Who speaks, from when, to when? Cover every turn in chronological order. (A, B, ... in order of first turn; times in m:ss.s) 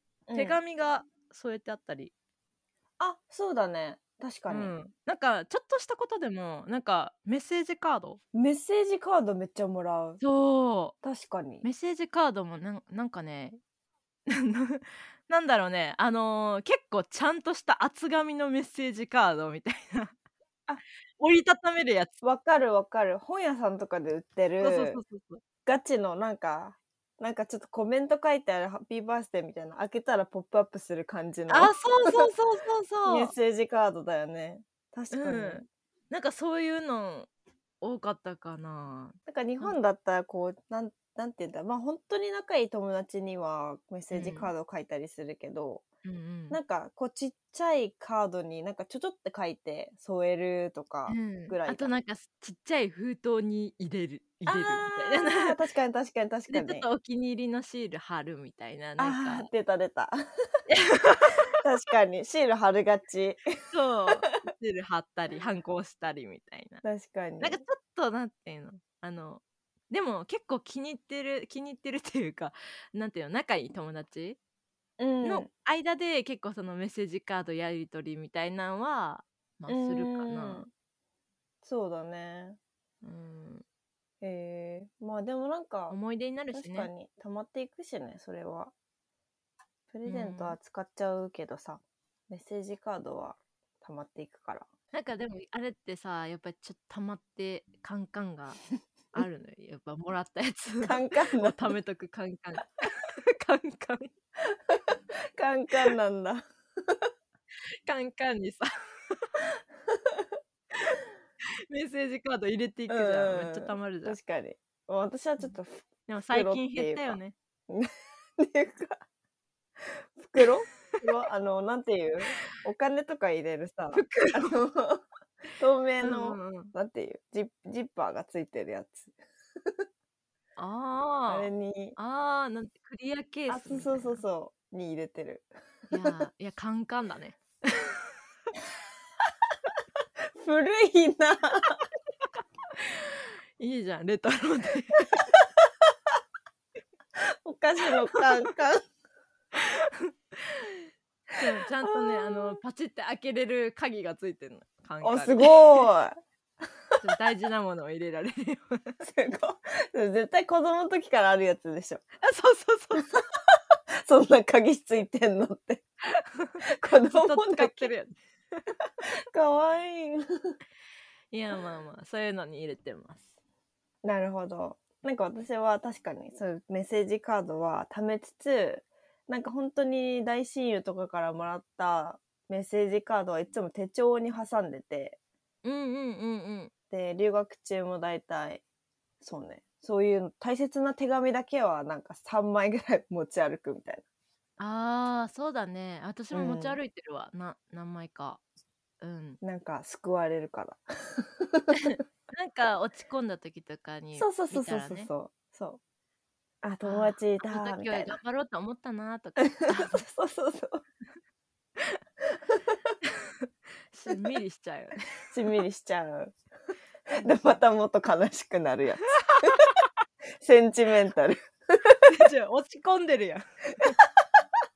0:00.3-0:00.6 A
0:00.4-0:02.1 B
0:03.0-0:04.8 A
0:04.5-0:08.2 B
0:08.3-0:10.2 A
0:10.2-0:11.0 B
0:11.0-0:11.7 A
0:11.6-0:13.6 B
0:14.3-0:20.1 B
0:21.2-0:22.1 B
0:22.2-0:25.0 A
0:24.6-0:25.4 B
0:25.7-0:32.3 A
0:31.5-0:33.3 B
0:33.1-0:35.7 A
0:35.1-0:37.3 B
0:37.8-0:39.8 B
0:39.3-0:45.9 A
0:44.1-0:44.5 B
0:46.0-0:46.6 B
0:46.5-0:52.0 A
0:51.1-0:55.6 B
0:54.5-0:56.9 A
0:56.5-0:59.5 B
0:59.0-1:00.2 A
1:00.7-1:01.4 B
1:01.6-1:03.6 A
1:03.7-1:06.8 B
1:06.8-1:07.6 A
1:07.4-1:14.4 B
1:15.0-1:15.5 A
1:15.2-1:20.6 B
1:19.7-1:20.7 A
1:21.6-1:22.6 A
1:23.0-1:23.6 B
1:24.2-1:26.0 A
1:25.9-1:26.9 B
1:26.5-1:28.7 A
1:29.9-1:34.7 A
1:30.1-1:30.6 B
1:34.9-1:38.6 B
1:39.1-1:44.1 B
1:40.8-1:41.7 A
1:45.4-1:47.0 A
1:47.8-1:49.4 B
1:51.7-1:54.2 B
1:52.9-1:59.0 A
1:56.1-1:57.4 B
1:59.8-2:05.0 A
2:03.9-2:04.6 B
2:05.6-2:09.2 A
2:06.0-2:06.7 B
2:10.6-2:14.2 B
2:11.3-2:12.0 A
2:13.5-2:16.3 A
2:15.9-2:18.0 B
2:20.4-2:21.8 A
2:23.6-2:25.2 B
2:27.4-2:28.8 A
2:29.6-2:29.9 B
2:31.4-2:35.8 B
2:32.0-2:32.6 A
2:35.0-2:36.2 A
2:37.0-2:39.0 B
2:39.0-2:42.0 A
2:42.2-2:43.3 B
2:43.0-2:43.2 A
2:44.0-2:45.8 A
2:46.1-2:48.6 B
2:46.6-2:47.9 A
2:49.3-2:50.2 A
2:51.3-2:53.4 B
2:54.0-3:05.2 A
3:05.6-3:06.7 B
3:06.9-3:08.6 A
3:09.2-3:14.0 A
3:14.6-3:18.4 B
3:16.3-3:16.8 A
3:19.0-3:19.4 B
3:19.4-3:21.8 A
3:21.9-3:25.1 B
3:24.2-3:25.8 A
3:26.6-3:28.2 A
3:26.8-3:30.1 B
3:29.4-3:30.8 A
3:33.9-3:35.3 B
3:35.3-3:36.4 A
3:37.1-3:39.6 A
3:40.4-3:42.0 A
3:42.1-3:44.0 B